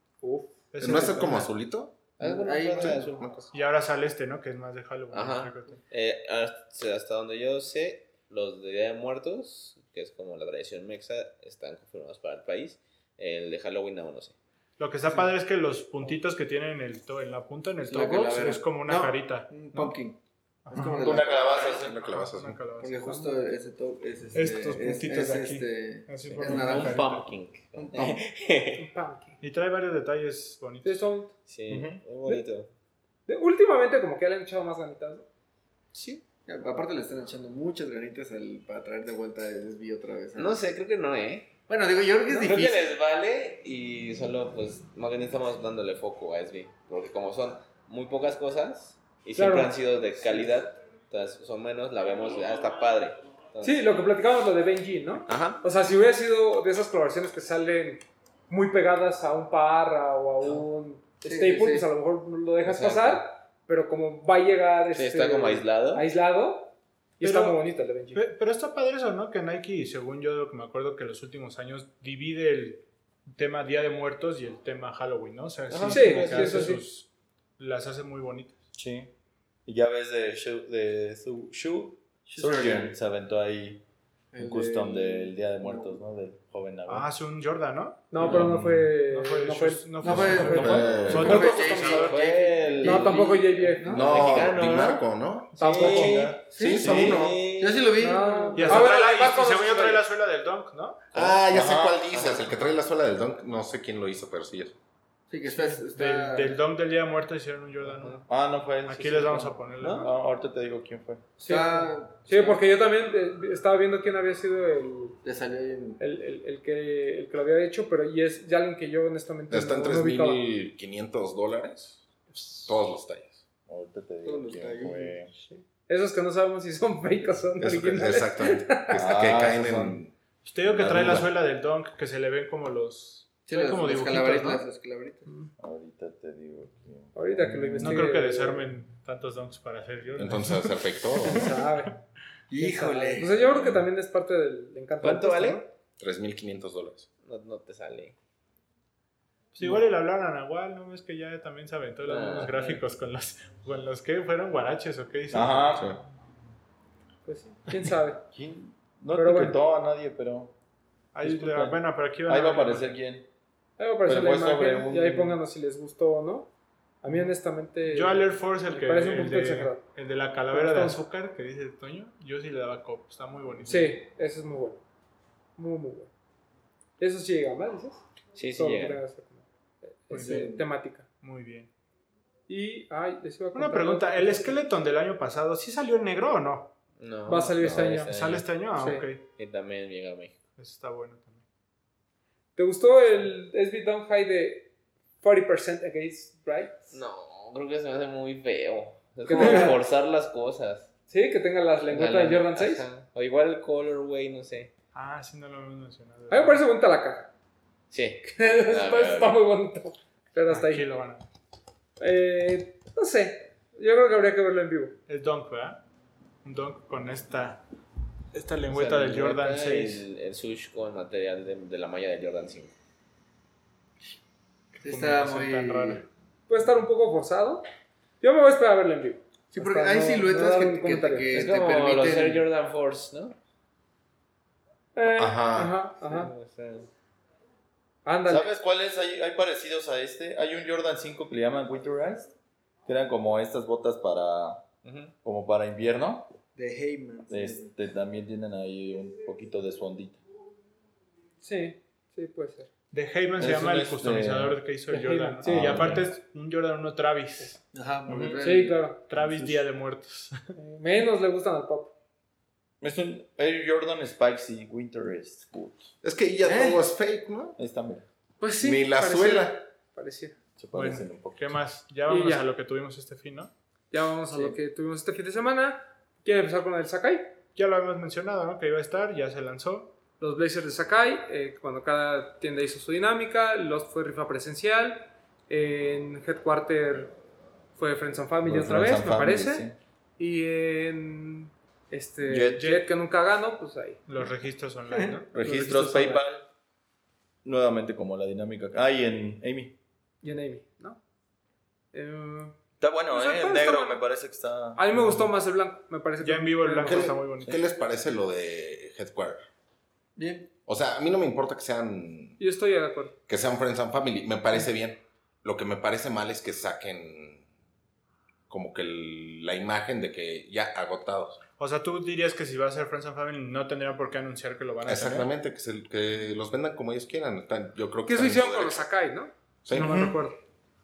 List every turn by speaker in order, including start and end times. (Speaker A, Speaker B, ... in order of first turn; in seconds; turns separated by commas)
Speaker A: 0.2-0.5, Speaker B: 0.7-1.5, Speaker C: 0.8-2.0, Speaker D: 0.8-1.3, Speaker D: 2.2-3.3, Speaker E: 2.2-3.3, Speaker C: 2.8-3.5, Speaker B: 3.5-5.8, Speaker E: 5.1-14.3, Speaker B: 14.8-19.9, Speaker D: 17.8-20.2, Speaker B: 20.6-21.2, Speaker D: 20.7-21.9, Speaker F: 20.7-21.9, Speaker C: 21.6-22.7, Speaker B: 21.9-23.2, Speaker D: 22.8-27.0, Speaker A: 23.1-23.3, Speaker B: 24.3-27.3, Speaker E: 26.4-28.8, Speaker D: 27.7-28.2, Speaker A: 28.8-29.4, Speaker B: 29.4-31.0, Speaker A: 30.8-31.3, Speaker E: 31.5-32.7, Speaker F: 31.7-32.0, Speaker A: 33.3-35.2, Speaker A: 35.9-36.2, Speaker D: 36.5-40.6, Speaker E: 40.4-41.5, Speaker D: 41.7-43.0, Speaker A: 42.3-42.6, Speaker E: 42.4-54.0, Speaker A: 49.4-49.7, Speaker A: 53.6-68.2, Speaker E: 55.3-55.6, Speaker D: 61.2-61.9, Speaker E: 62.6-63.2, Speaker E: 64.9-66.1, Speaker B: 67.2-67.6, Speaker B: 68.1-78.7, Speaker E: 75.7-76.8, Speaker A: 75.9-76.8, Speaker F: 78.7-79.1, Speaker F: 79.7-83.8, Speaker D: 82.3-82.9, Speaker D: 84.3-86.0, Speaker F: 84.4-87.1, Speaker B: 86.9-88.4, Speaker A: 88.1-91.5, Speaker F: 88.3-88.6, Speaker B: 88.9-92.4, Speaker D: 90.0-94.4, Speaker C: 90.1-91.5, Speaker E: 91.3-93.3, Speaker A: 92.8-94.0, Speaker C: 93.8-95.6, Speaker E: 93.9-95.0, Speaker B: 95.6-97.2, Speaker A: 95.6-96.4, Speaker E: 95.6-97.9, Speaker D: 96.5-98.9, Speaker C: 96.5-97.4, Speaker A: 98.0-100.0, Speaker B: 98.5-101.3, Speaker C: 101.1-104.8, Speaker F: 101.5-102.2, Speaker D: 105.3-106.6, Speaker B: 105.5-108.3, Speaker F: 108.3-111.2, Speaker B: 108.8-110.1, Speaker A: 111.4-115.2, Speaker D: 111.4-112.6, Speaker D: 115.2-116.0, Speaker A: 116.0-120.4, Speaker C: 119.5-122.0, Speaker B: 122.3-122.7, Speaker C: 122.7-123.4, Speaker F: 123.7-125.3, Speaker D: 124.2-125.2, Speaker A: 125.3-129.0, Speaker C: 127.6-130.1, Speaker F: 128.9-130.0, Speaker B: 130.4-134.7, Speaker C: 130.8-131.2, Speaker F: 130.8-131.3, Speaker D: 133.5-135.2, Speaker A: 135.2-135.5, Speaker F: 135.6-138.1, Speaker A: 137.1-138.7, Speaker B: 137.8-141.9, Speaker C: 140.2-141.5, Speaker A: 141.2-141.9, Speaker D: 142.5-143.4, Speaker A: 142.6-145.7, Speaker E: 145.0-145.6, Speaker C: 146.0-147.1, Speaker E: 147.2-148.1, Speaker B: 149.5-155.8, Speaker E: 152.0-152.8, Speaker F: 155.3-155.9, Speaker C: 155.6-156.0, Speaker A: 157.2-158.2, Speaker F: 158.3-160.5, Speaker A: 159.1-159.6, Speaker B: 161.1-163.0, Speaker F: 161.2-163.3, Speaker A: 163.8-166.5, Speaker F: 164.0-165.4, Speaker A: 167.0-169.8, Speaker B: 167.8-173.9, Speaker A: 170.5-171.0, Speaker A: 173.7-174.8, Speaker A: 175.6-176.1, Speaker A: 177.0-178.0, Speaker E: 178.3-179.0, Speaker A: 178.5-181.1, Speaker B: 180.1-180.6, Speaker D: 180.1-180.6, Speaker B: 181.2-181.7, Speaker A: 182.5-184.6, Speaker B: 183.5-186.7, Speaker E: 187.0-188.5, Speaker A: 187.3-188.1, Speaker B: 188.0-189.2, Speaker A: 188.7-189.1, Speaker E: 189.3-190.4, Speaker B: 190.6-191.4, Speaker A: 192.6-194.7, Speaker A: 195.2-196.9, Speaker E: 196.9-200.9, Speaker A: 199.2-199.8, Speaker A: 201.1-202.9, Speaker E: 201.9-204.7, Speaker B: 204.9-206.6, Speaker A: 206.3-207.3, Speaker E: 207.9-209.4, Speaker A: 208.3-210.9, Speaker B: 210.5-211.2, Speaker A: 212.0-214.9, Speaker B: 215.1-215.8, Speaker B: 216.4-217.6, Speaker B: 218.3-220.1, Speaker E: 218.7-222.7, Speaker B: 224.7-226.1, Speaker D: 224.8-226.0, Speaker A: 226.5-227.7, Speaker A: 228.2-231.5, Speaker D: 229.5-232.4, Speaker E: 231.3-233.3, Speaker A: 234.9-236.3, Speaker C: 235.1-235.7, Speaker E: 236.0-236.9, Speaker A: 238.0-238.6, Speaker F: 238.3-242.3, Speaker F: 242.8-244.6, Speaker E: 244.8-245.1, Speaker F: 245.2-246.3, Speaker D: 246.5-247.7, Speaker F: 247.3-250.2, Speaker A: 251.4-252.7, Speaker B: 252.9-257.6, Speaker F: 253.4-254.6, Speaker A: 254.9-256.0, Speaker F: 255.4-256.1, Speaker D: 257.7-258.8, Speaker F: 258.1-258.4, Speaker A: 258.4-259.0, Speaker B: 259.1-260.4, Speaker F: 259.1-259.6, Speaker A: 260.5-261.9, Speaker F: 262.8-265.9, Speaker C: 266.0-267.6, Speaker D: 266.4-266.8, Speaker F: 267.6-268.1, Speaker A: 268.4-270.4, Speaker C: 268.6-269.6, Speaker F: 270.6-271.6, Speaker B: 270.7-273.5, Speaker A: 272.1-272.4, Speaker A: 273.9-277.3, Speaker B: 277.6-279.9, Speaker A: 280.2-287.1, Speaker A: 287.8-294.0, Speaker F: 288.4-289.8, Speaker F: 292.3-292.7, Speaker B: 292.6-292.9, Speaker B: 294.1-295.3, Speaker D: 294.9-295.2, Speaker F: 295.3-296.4, Speaker A: 295.4-296.2, Speaker F: 297.4-299.7, Speaker A: 300.2-301.0, Speaker A: 301.9-302.5, Speaker F: 302.8-305.1, Speaker A: 303.1-304.0, Speaker A: 304.7-307.1, Speaker B: 306.2-307.6, Speaker C: 306.8-309.4, Speaker D: 310.1-310.5, Speaker C: 310.7-312.4, Speaker A: 312.4-313.1, Speaker C: 313.3-317.4, Speaker C: 318.5-321.4, Speaker B: 321.6-325.3, Speaker C: 324.8-328.9, Speaker A: 328.0-330.4, Speaker C: 329.6-330.0, Speaker F: 329.8-330.1